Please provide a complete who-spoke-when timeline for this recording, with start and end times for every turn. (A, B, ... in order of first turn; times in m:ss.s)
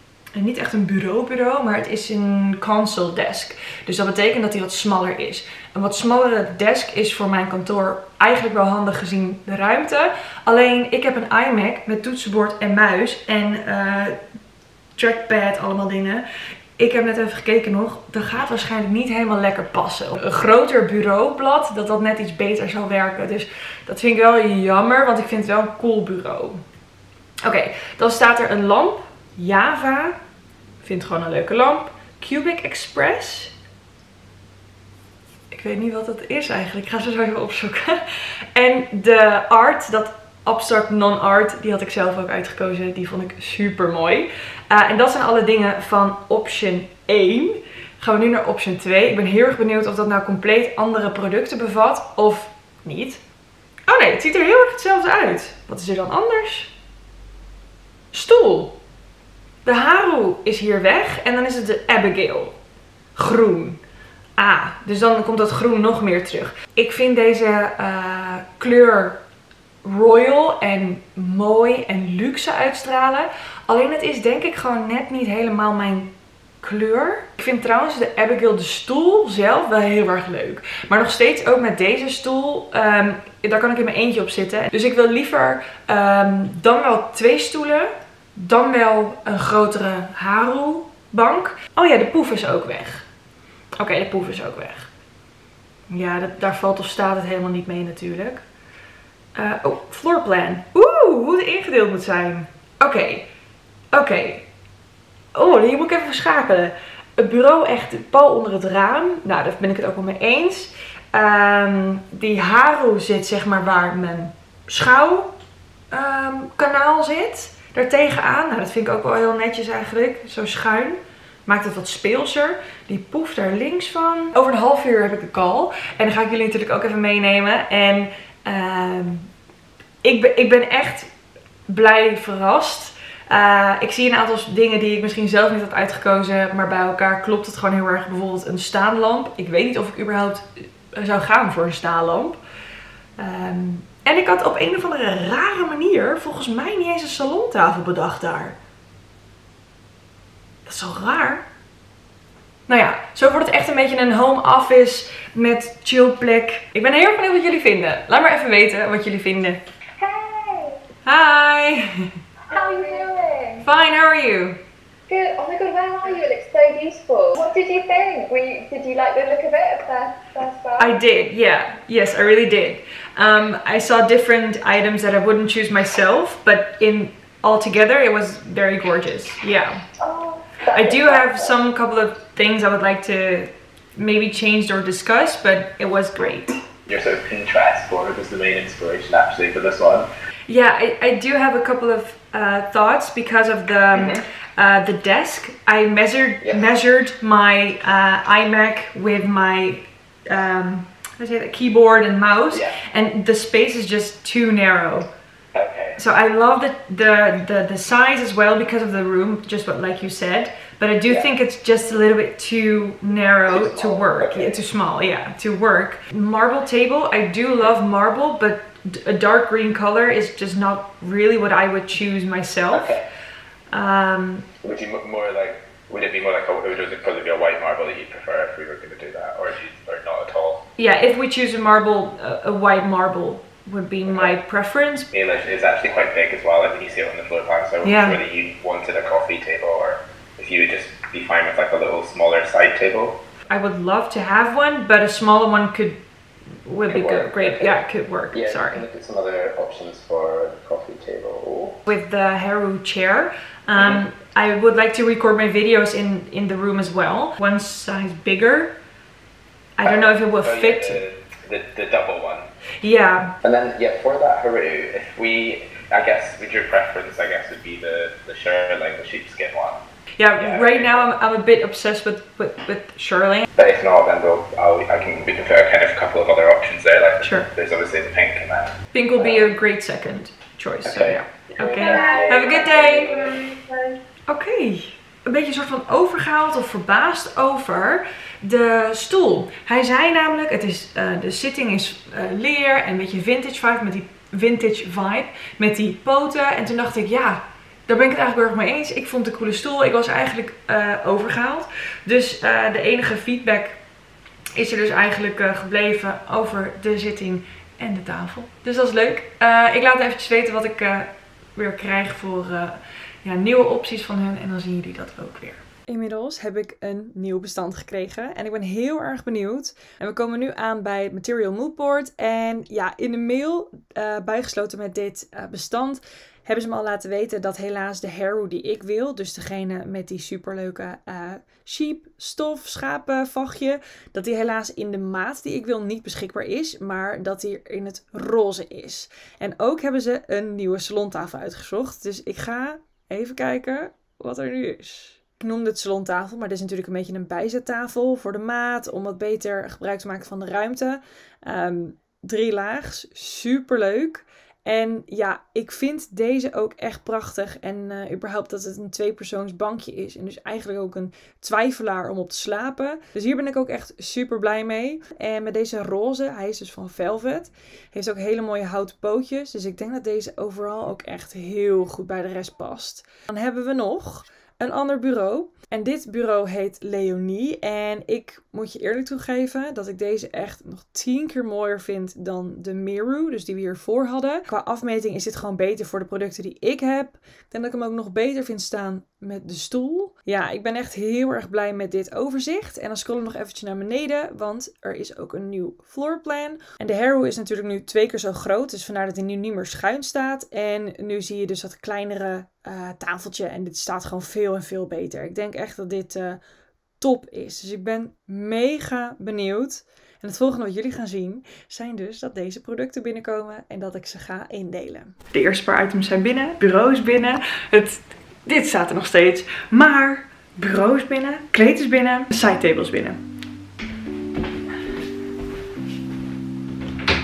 0:00.3-0:14.2 A
0:15.0-0:16.2 A
0:16.8-0:26.6 A
0:27.4-0:30.2 A
0:30.8-0:33.5 A
0:35.5-0:38.0 A
0:38.5-0:53.2 A
0:53.9-0:56.7 A
0:58.1-0:58.8 A
0:59.6-1:02.5 A
1:03.2-1:03.8 A
1:04.4-1:09.2 A
1:09.8-1:33.1 A
1:33.8-1:34.9 A
1:35.9-1:38.4 A
1:39.4-1:43.2 A
1:43.9-1:44.4 A
1:45.3-1:55.3 A
1:55.9-2:09.3 A
2:10.0-2:11.1 A
2:11.7-2:22.4 A
2:23.2-2:28.6 A
2:30.6-2:31.4 A
2:32.7-2:39.6 A
2:40.0-2:40.8 B
2:41.0-2:42.1 A
2:42.5-2:43.6 B
2:43.6-2:44.6 A
2:45.1-2:51.0 B
2:50.8-2:59.8 A
3:00.0-3:01.5 B
3:00.7-3:06.5 A
3:06.8-3:10.1 C
3:10.5-3:25.1 A
3:13.9-3:14.2 C
3:25.5-3:26.0 C
3:26.0-3:43.0 A
3:33.5-3:34.5 C
3:42.7-3:43.0 C
3:43.7-3:44.5 A
3:44.6-3:50.6 C
3:50.8-3:55.1 A
3:54.1-3:54.3 C
3:55.1-4:03.2 C
3:57.8-3:58.2 A
4:03.5-4:06.0 A
4:06.6-4:08.8 A
4:06.9-4:07.8 C
4:08.3-4:11.8 C
4:11.9-4:18.7 A
4:13.8-4:14.0 C
4:19.8-4:21.0 A
4:19.8-4:22.5 C
4:22.8-4:23.3 A
4:23.4-4:29.8 C
4:30.2-4:33.5 A
4:30.4-4:31.0 C
4:33.5-4:39.5 C
4:37.2-4:37.5 A
4:38.9-4:43.3 A
4:40.8-4:43.3 C
4:41.8-4:44.0 B
4:44.3-5:03.8 A
5:04.6-6:46.4 A
6:47.0-7:03.2 A